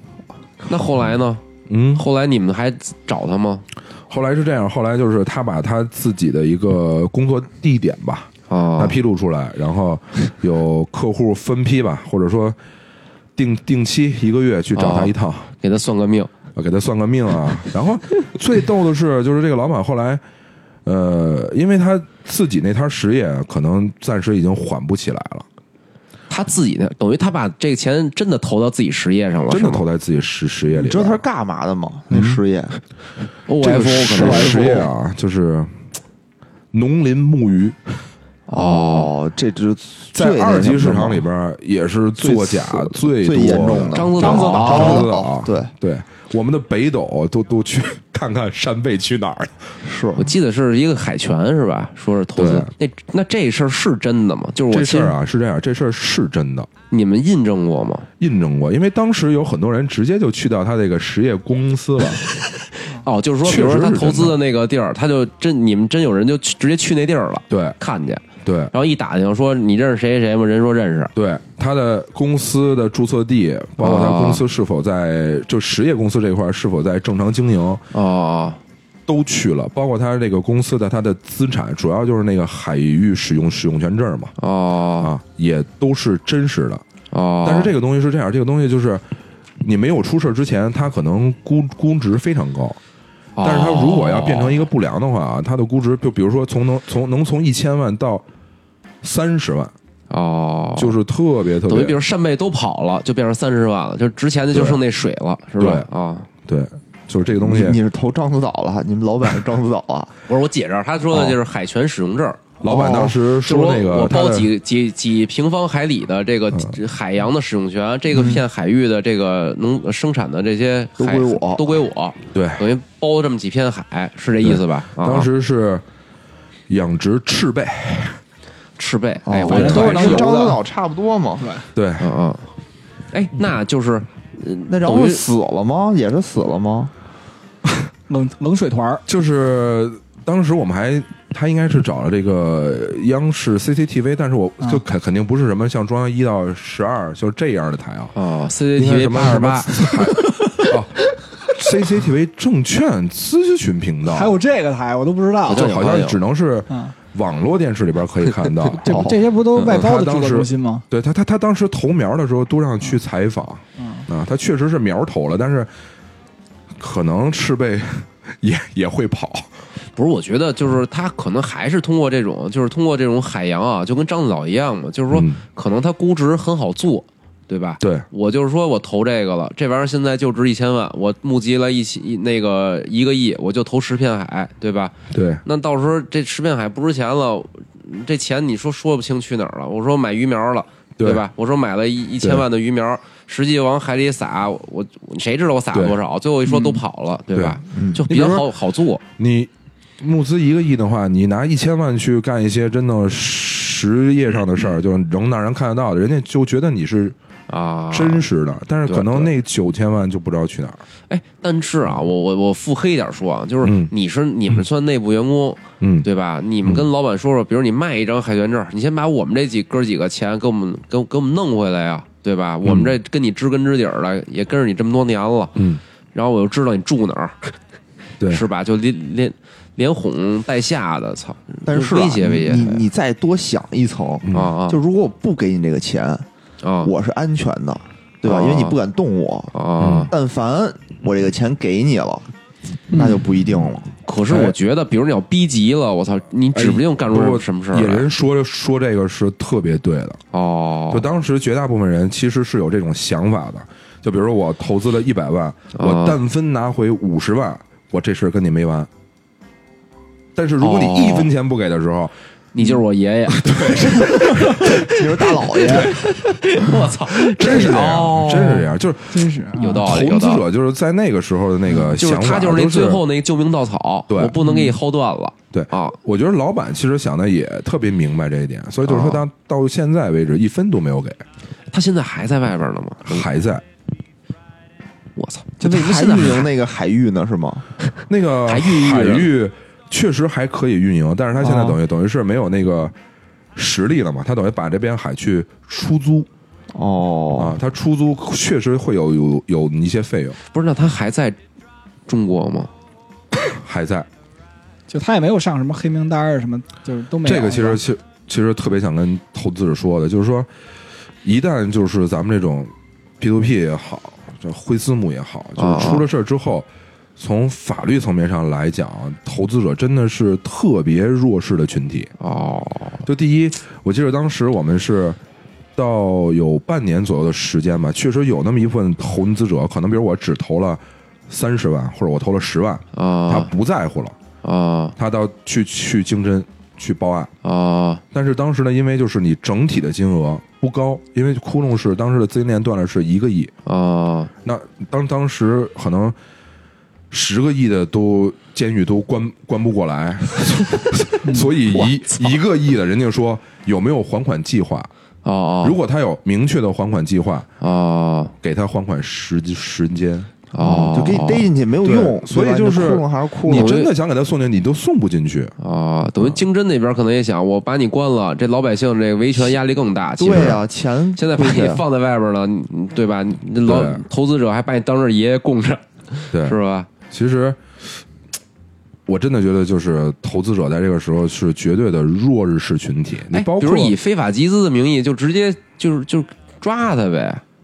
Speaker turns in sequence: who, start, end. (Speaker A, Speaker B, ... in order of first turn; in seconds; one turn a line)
Speaker A: 0.7-1.4
Speaker B: 1.7-2.0
Speaker A: 2.0-3.6
Speaker B: 4.1-12.6
Speaker A: 8.5-9.0
Speaker B: 13.4-15.5
Speaker A: 14.8-16.3
Speaker B: 16.6-20.2
Speaker B: 20.9-25.4
Speaker A: 26.3-29.8
Speaker B: 29.5-31.2
Speaker C: 30.7-32.8
Speaker A: 33.5-34.8
Speaker D: 33.6-34.9
Speaker B: 33.6-35.7
Speaker B: 36.7-38.0
Speaker A: 38.5-39.1
Speaker C: 38.5-41.3
Speaker B: 40.1-49.7
Speaker C: 42.2-45.7
Speaker A: 43.9-45.0
Speaker D: 44.2-45.1
Speaker C: 49.8-50.3
Speaker A: 50.2-55.1
Speaker B: 52.4-52.7
Speaker B: 54.7-56.7
Speaker A: 56.9-58.1
Speaker B: 58.2-62.2
Speaker A: 62.4-71.1
Speaker B: 63.4-64.4
Speaker B: 67.5-67.8
Speaker B: 68.4-68.7
Speaker B: 71.2-77.8
Speaker A: 73.8-74.5
Speaker A: 77.9-78.6
Speaker B: 79.1-84.3
Speaker A: 84.4-85.1
Speaker B: 85.0-86.8
Speaker A: 87.1-87.7
Speaker B: 87.4-89.0
Speaker B: 89.6-92.8
Speaker A: 93.4-94.7
Speaker B: 93.4-98.2
Speaker B: 99.0-99.7
Speaker A: 100.1-101.0
Speaker B: 100.8-102.0
Speaker A: 101.7-106.3
Speaker B: 104.5-104.8
Speaker B: 105.6-105.9
Speaker B: 106.4-107.8
Speaker C: 107.4-110.2
Speaker A: 110.3-112.5
Speaker C: 112.6-113.2
Speaker B: 112.6-114.5
Speaker A: 113.4-125.3
Speaker C: 118.1-118.4
Speaker C: 121.0-121.8
Speaker B: 122.3-122.7
Speaker B: 124.4-125.8
Speaker B: 126.7-128.2
Speaker A: 128.8-130.3
Speaker C: 129.2-131.6
Speaker D: 129.5-130.6
Speaker D: 131.4-131.7
Speaker B: 131.8-132.1
Speaker A: 132.0-132.5
Speaker A: 133.1-135.2
Speaker C: 134.7-136.9
Speaker D: 138.1-139.0
Speaker B: 139.1-148.1
Speaker A: 148.1-149.9
Speaker B: 148.8-154.4
Speaker D: 154.1-155.7
Speaker A: 155.5-156.2
Speaker B: 155.5-165.7
Speaker D: 158.8-160.8
Speaker C: 158.8-159.2
Speaker D: 163.8-164.1
Speaker B: 166.8-169.5
Speaker A: 169.9-199.0
Speaker B: 175.1-175.4
Speaker B: 177.8-178.1
Speaker B: 185.1-185.4
Speaker B: 191.0-191.2
Speaker B: 197.3-198.5
Speaker C: 197.7-198.0
Speaker B: 199.2-207.2
Speaker A: 207.5-208.2
Speaker B: 207.9-210.8
Speaker A: 208.9-209.3
Speaker A: 211.1-225.6
Speaker B: 213.6-213.9
Speaker B: 215.8-216.1
Speaker B: 222.6-222.9
Speaker A: 226.1-227.5
Speaker A: 228.3-232.8
Speaker C: 231.7-236.3
Speaker B: 234.3-234.5
Speaker A: 234.3-234.8
Speaker A: 236.6-236.9
Speaker C: 236.8-239.5
Speaker A: 238.2-238.8
Speaker A: 239.5-240.1
Speaker B: 239.8-240.1
Speaker C: 240.1-242.3
Speaker C: 242.9-243.9
Speaker D: 242.9-243.2
Speaker A: 244.1-248.1
Speaker B: 244.3-244.6
Speaker B: 246.6-250.2
Speaker A: 250.3-251.1
Speaker B: 250.9-258.9
Speaker A: 255.8-256.2
Speaker B: 260.4-262.1
Speaker A: 260.6-261.3
Speaker A: 262.5-268.6
Speaker B: 263.3-264.8
Speaker C: 264.6-266.0
Speaker B: 267.1-273.0
Speaker D: 268.3-269.9
Speaker A: 269.5-270.5
Speaker A: 271.9-276.0
Speaker B: 274.1-274.4
Speaker D: 274.4-274.7
Speaker B: 275.5-281.2
Speaker A: 278.9-279.2
Speaker A: 281.7-283.3
Speaker B: 283.1-283.6
Speaker A: 285.2-286.5
Speaker C: 285.6-287.7
Speaker B: 288.1-292.9
Speaker A: 288.5-289.3
Speaker C: 291.4-291.8
Speaker B: 293.6-296.3
Speaker C: 296.7-297.6
Speaker B: 297.4-300.4
Speaker A: 300.5-301.4
Speaker A: 302.1-302.7
Speaker B: 303.5-304.1
Speaker D: 304.9-307.8
Speaker B: 307.2-310.5
Speaker B: 311.2-322.1
Speaker A: 315.6-316.1
Speaker A: 322.2-323.0
Speaker B: 323.0-325.2
Speaker B: 325.8-334.2
Speaker A: 332.9-333.5
Speaker A: 334.4-334.9
Speaker B: 335.0-337.3
Speaker A: 337.4-338.0
Speaker B: 338.1-343.5
Speaker A: 343.6-344.3
Speaker B: 344.4-346.2
Speaker B: 347.1-354.9
Speaker D: 351.2-351.5
Speaker A: 355.2-355.8
Speaker B: 355.6-357.5
Speaker A: 357.6-358.3
Speaker B: 358.4-360.8
Speaker A: 360.5-361.5
Speaker C: 360.6-363.8
Speaker B: 361.8-365.5
Speaker A: 363.5-363.9
Speaker A: 365.6-370.6
Speaker C: 370.2-371.8
Speaker B: 370.3-370.6
Speaker A: 371.1-376.9
Speaker B: 373.6-374.0
Speaker B: 376.3-376.6
Speaker B: 377.1-377.8
Speaker B: 379.1-384.0
Speaker A: 383.3-387.4